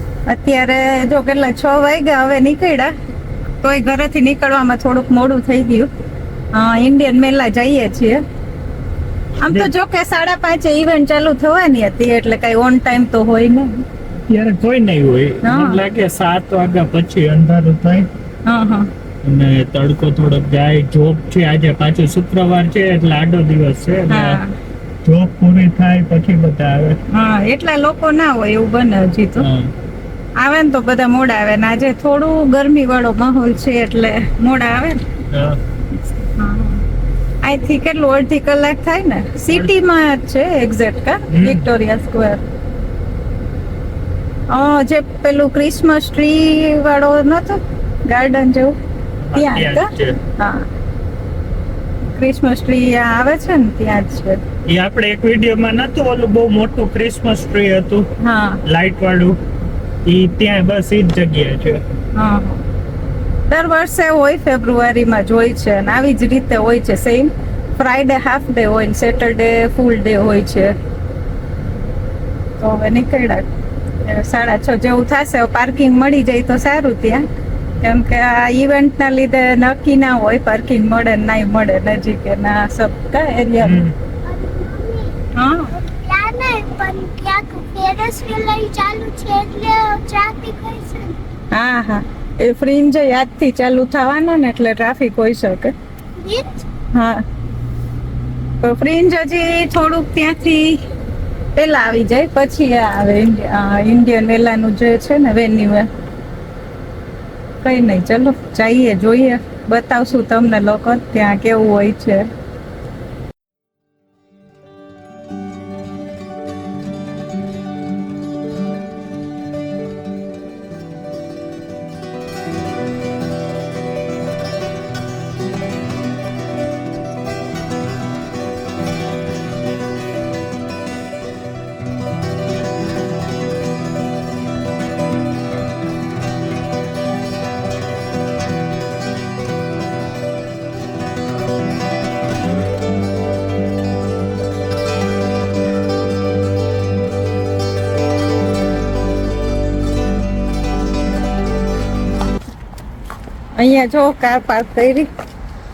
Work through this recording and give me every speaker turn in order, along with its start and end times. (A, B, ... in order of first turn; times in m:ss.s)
0:00.3-0:02.9 A
0:03.6-0:05.9 A
0:06.5-0:08.2 A
0:09.4-0:13.8 A
0:09.4-0:09.7 B
0:14.3-0:18.1 B
0:15.4-0:15.8 A
0:18.5-0:18.9 A
0:19.2-0:24.4 B
0:24.1-0:24.5 A
0:25.0-0:27.0 B
0:27.1-0:29.5 A
0:29.4-0:29.7 B
0:30.4-0:35.0 A
0:35.3-0:35.6 B
0:36.2-0:36.8 A
0:37.4-0:42.4 A
0:41.3-0:41.7 B
0:44.5-0:48.8 A
0:49.3-0:50.2 B
0:49.4-0:50.6 A
0:52.1-0:54.4 A
0:54.7-0:58.1 B
0:58.2-0:58.6 A
0:58.7-0:59.4 B
1:00.1-1:01.8 B
1:02.2-1:02.6 A
1:03.5-1:10.8 A
1:12.6-1:13.5 A
1:14.0-1:17.2 A
1:17.8-1:23.8 A
1:23.6-1:24.0 B
1:24.2-1:25.2 C
1:25.4-1:25.8 A
1:25.8-1:31.2 C
1:31.5-1:35.7 A
1:36.2-1:36.6 C
1:36.9-1:37.2 A
1:38.6-1:40.8 A
1:41.6-1:45.9 A
1:47.6-1:52.3 A
2:33.6-2:35.1 A